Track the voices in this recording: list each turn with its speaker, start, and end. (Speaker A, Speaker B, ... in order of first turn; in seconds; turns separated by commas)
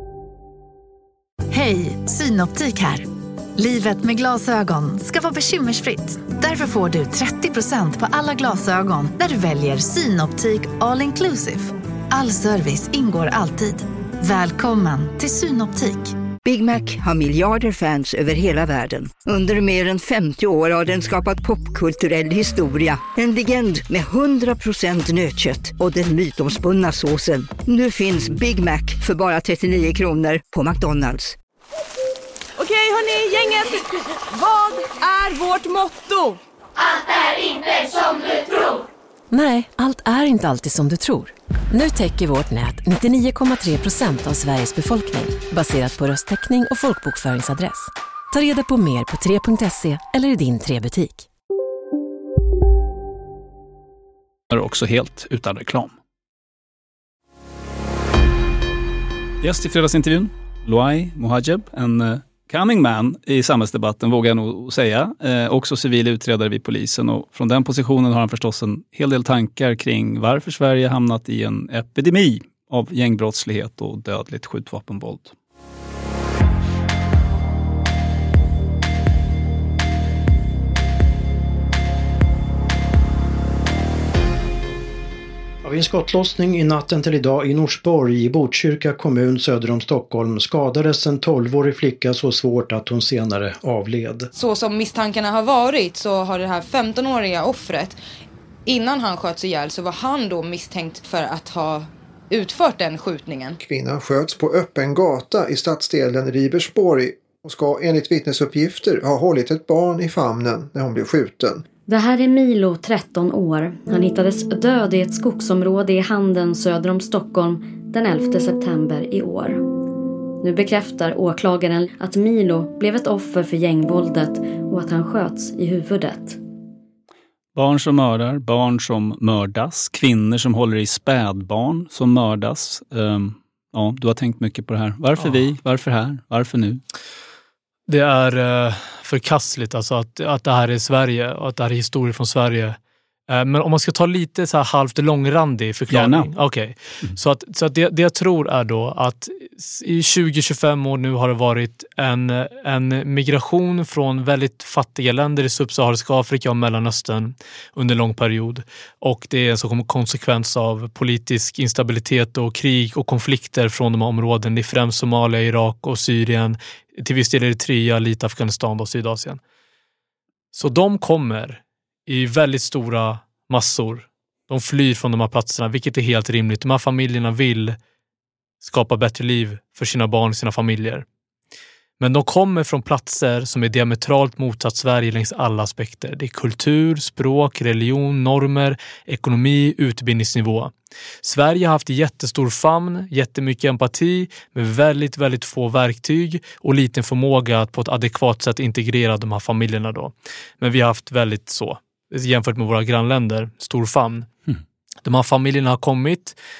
Speaker A: 1.5-16.1, Speaker B: 16.4-31.4, Speaker C: 32.6-33.7, Speaker C: 34.5-36.3, Speaker D: 39.3-51.2, Speaker E: 54.5-55.9, Speaker E: 59.4-75.3, Speaker F: 85.6-94.3, Speaker G: 94.3-98.0, Speaker G: 98.7-103.6, Speaker H: 103.6-111.6, Speaker I: 111.9-119.6, Speaker I: 120.4-126.4, Speaker E: 127.5-136.8, Speaker J: 137.9-142.8, Speaker J: 143.3-169.4, Speaker E: 145.9-146.3, Speaker J: 170.5-177.8, Speaker J: 178.6-181.0, Speaker J: 182.0-204.3, Speaker J: 205.0-206.4